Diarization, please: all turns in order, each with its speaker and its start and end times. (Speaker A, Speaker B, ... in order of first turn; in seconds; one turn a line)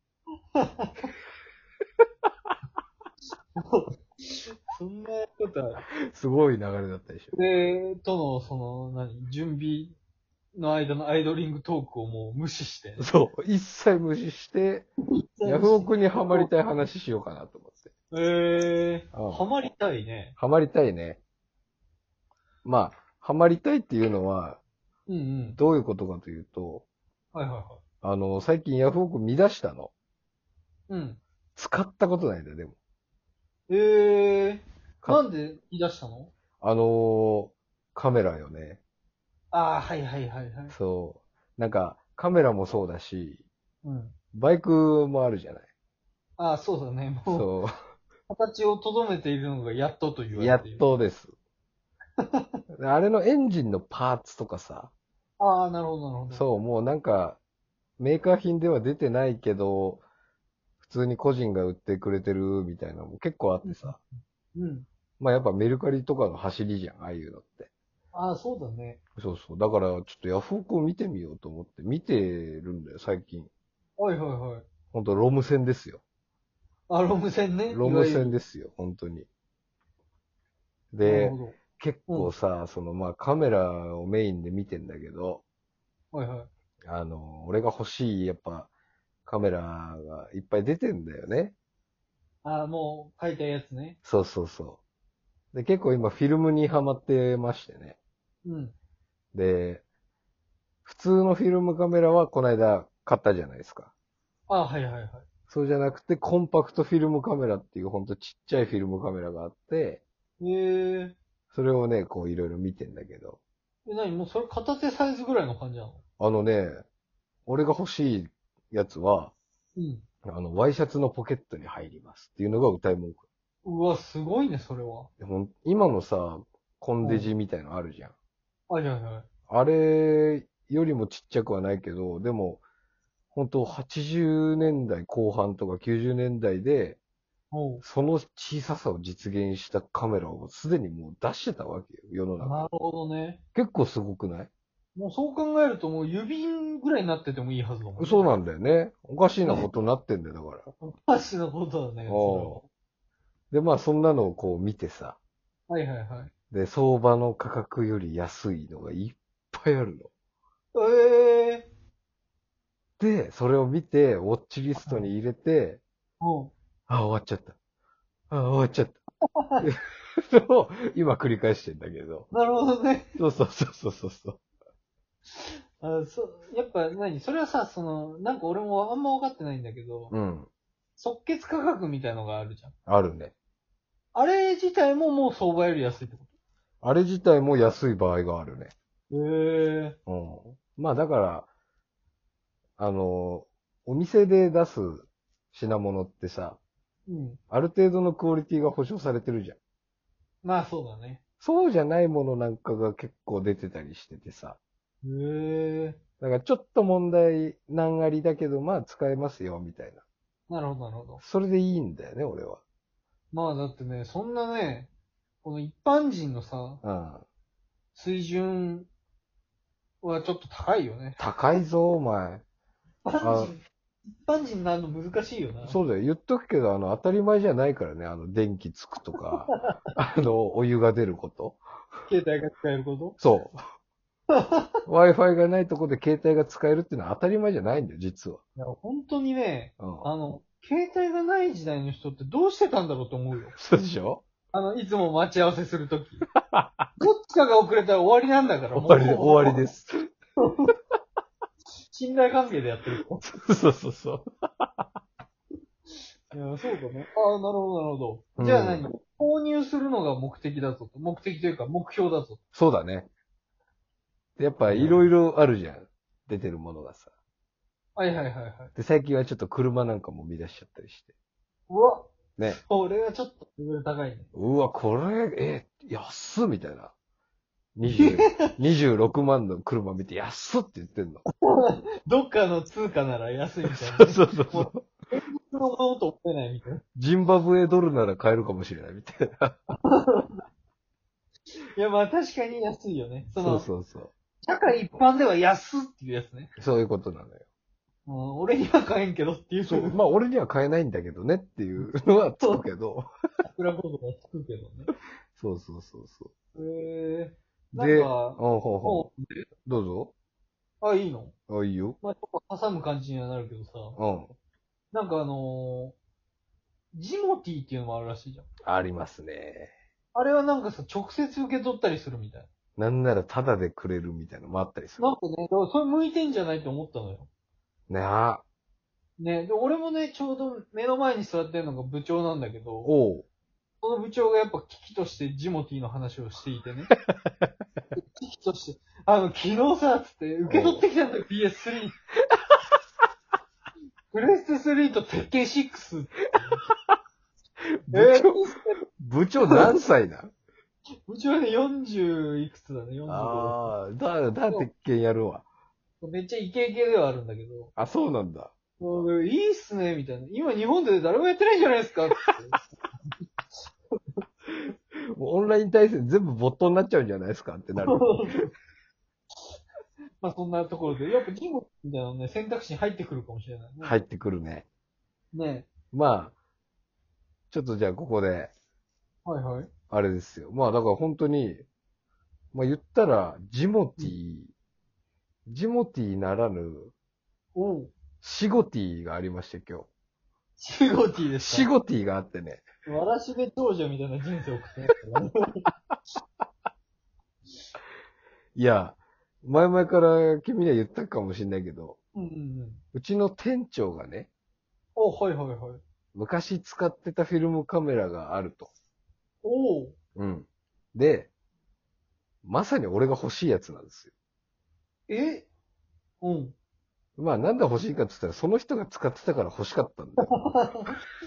Speaker A: 0.6-0.9
Speaker A: 3.6-5.8
Speaker B: 6.1-7.3
Speaker A: 7.3-10.0
Speaker A: 10.5-13.1
Speaker B: 13.0-14.9
Speaker A: 15.3-16.5
Speaker B: 15.4-17.9
Speaker A: 18.1-20.3
Speaker B: 19.1-19.4
Speaker B: 20.4-21.2
Speaker B: 22.6-24.6
Speaker A: 25.1-25.6
Speaker B: 25.5-26.8
Speaker A: 27.3-27.8
Speaker B: 28.0-29.9
Speaker A: 30.9-31.2
Speaker B: 31.6-32.8
Speaker A: 33.7-36.3
Speaker B: 36.6-38.8
Speaker A: 39.5-40.7
Speaker B: 40.7-43.4
Speaker A: 43.8-44.1
Speaker B: 44.3-45.7
Speaker A: 46.4-47.5
Speaker B: 47.3-47.7
Speaker A: 48.3-50.9
Speaker B: 50.3-51.3
Speaker A: 52.2-52.5
Speaker B: 52.8-54.9
Speaker A: 55.4-56.5
Speaker B: 56.3-57.4
Speaker B: 58.0-60.0
Speaker B: 60.8-64.0
Speaker A: 63.6-64.0
Speaker A: 64.5-64.8
Speaker B: 65.2-67.7
Speaker A: 68.1-69.0
Speaker B: 69.2-73.5
Speaker A: 74.0-74.7
Speaker B: 74.9-76.0
Speaker A: 76.9-78.3
Speaker B: 77.7-79.3
Speaker B: 80.9-85.4
Speaker A: 81.0-82.3
Speaker A: 86.1-86.5
Speaker B: 86.8-88.7
Speaker B: 89.2-91.5
Speaker A: 92.4-94.0
Speaker B: 94.0-94.8
Speaker B: 95.5-98.0
Speaker A: 98.4-98.7
Speaker B: 99.3-99.8
Speaker B: 100.8-103.9
Speaker A: 104.5-105.2
Speaker B: 105.5-110.0
Speaker A: 110.4-111.2
Speaker B: 111.5-113.4
Speaker A: 113.8-116.0
Speaker B: 116.2-116.8
Speaker B: 117.5-119.3
Speaker A: 119.8-120.0
Speaker B: 120.2-123.2
Speaker A: 123.6-125.1
Speaker B: 125.2-128.1
Speaker A: 127.0-127.3
Speaker A: 128.7-129.2
Speaker B: 129.5-132.6
Speaker B: 133.3-137.0
Speaker A: 137.5-137.8
Speaker B: 137.8-142.7
Speaker A: 142.4-143.4
Speaker B: 143.5-144.5
Speaker A: 144.9-148.3
Speaker B: 148.0-150.7
Speaker A: 150.8-152.6
Speaker B: 152.1-152.6
Speaker B: 153.5-155.2
Speaker A: 155.7-156.3
Speaker B: 156.5-160.1
Speaker A: 160.7-161.7
Speaker B: 163.0-165.8
Speaker A: 164.8-165.1
Speaker A: 166.2-166.5
Speaker B: 166.9-167.5
Speaker B: 168.3-169.0
Speaker A: 169.4-169.6
Speaker B: 169.6-172.3
Speaker A: 172.3-173.1
Speaker B: 173.2-174.4
Speaker A: 175.4-180.1
Speaker B: 180.1-180.5
Speaker A: 181.0-182.7
Speaker B: 182.9-183.3
Speaker A: 184.1-186.3
Speaker B: 186.8-188.7
Speaker A: 189.1-190.0
Speaker B: 190.1-191.5
Speaker B: 192.8-196.6
Speaker A: 197.1-197.4
Speaker B: 197.5-199.6
Speaker A: 200.4-201.2
Speaker B: 201.4-204.6
Speaker A: 205.0-206.0
Speaker B: 206.2-210.0
Speaker A: 210.5-211.2
Speaker B: 211.2-212.6
Speaker A: 213.3-214.9
Speaker A: 215.4-216.8
Speaker B: 216.8-217.2
Speaker A: 217.9-218.9
Speaker A: 220.0-221.3
Speaker B: 221.2-222.4
Speaker A: 223.0-223.6
Speaker B: 223.2-223.5
Speaker A: 224.2-225.8
Speaker B: 225.6-231.6
Speaker A: 232.1-233.2
Speaker B: 233.2-233.6
Speaker A: 234.3-234.7
Speaker B: 234.8-238.4
Speaker A: 238.6-243.6
Speaker B: 239.8-240.1
Speaker B: 243.6-244.2
Speaker A: 244.5-246.2
Speaker B: 246.5-246.8
Speaker A: 247.0-249.6
Speaker B: 248.7-249.9
Speaker A: 250.4-250.7
Speaker A: 251.9-253.2
Speaker B: 253.2-254.8
Speaker A: 256.3-262.4
Speaker B: 258.4-258.9
Speaker B: 262.5-263.1
Speaker B: 264.4-267.1
Speaker A: 264.6-265.1
Speaker A: 267.9-268.7
Speaker B: 268.8-271.1
Speaker A: 271.7-274.3
Speaker B: 274.3-276.9
Speaker B: 277.8-281.2
Speaker A: 277.8-278.5
Speaker A: 281.4-286.8
Speaker B: 283.6-284.9
Speaker B: 286.9-289.6
Speaker A: 289.8-290.3
Speaker A: 291.8-293.6
Speaker B: 293.3-294.1
Speaker A: 294.4-296.6
Speaker B: 296.6-297.4
Speaker A: 298.1-300.0
Speaker B: 299.6-303.1
Speaker A: 303.4-304.9
Speaker B: 305.3-306.3
Speaker A: 306.5-309.4
Speaker B: 307.8-309.1
Speaker B: 309.6-310.1
Speaker A: 310.8-311.3
Speaker B: 311.5-312.0
Speaker A: 312.0-314.0
Speaker B: 314.0-314.3
Speaker A: 314.9-315.9
Speaker A: 316.9-318.5
Speaker B: 318.6-319.7
Speaker A: 320.1-322.5
Speaker B: 322.8-325.1
Speaker A: 325.0-327.3
Speaker B: 327.9-328.4
Speaker A: 329.2-332.9
Speaker B: 332.8-333.2
Speaker A: 333.8-336.9
Speaker A: 338.2-341.9
Speaker B: 340.4-340.8
Speaker A: 344.1-346.6
Speaker B: 347.8-348.4
Speaker A: 347.9-348.8
Speaker B: 349.0-350.3
Speaker A: 351.1-353.7
Speaker B: 353.1-355.4
Speaker A: 356.0-357.7
Speaker B: 357.8-358.5
Speaker A: 358.8-362.6
Speaker B: 365.1-368.1
Speaker A: 367.8-368.5
Speaker A: 370.2-374.0
Speaker B: 373.8-374.7
Speaker A: 375.3-375.7
Speaker B: 375.9-376.3
Speaker B: 377.5-378.5
Speaker A: 379.2-379.7
Speaker B: 379.9-381.6
Speaker B: 382.5-384.5
Speaker B: 385.5-386.9
Speaker A: 387.5-387.9
Speaker B: 388.2-389.9
Speaker A: 390.6-391.7
Speaker B: 391.4-392.6
Speaker A: 392.9-395.6
Speaker B: 398.5-402.0
Speaker A: 402.1-402.8
Speaker B: 402.9-404.3
Speaker A: 404.9-405.8
Speaker B: 406.1-408.7
Speaker A: 409.4-409.9
Speaker B: 410.2-411.3
Speaker B: 412.4-414.1
Speaker A: 415.1-415.5
Speaker A: 416.2-416.5
Speaker B: 417.2-420.3
Speaker A: 420.2-420.9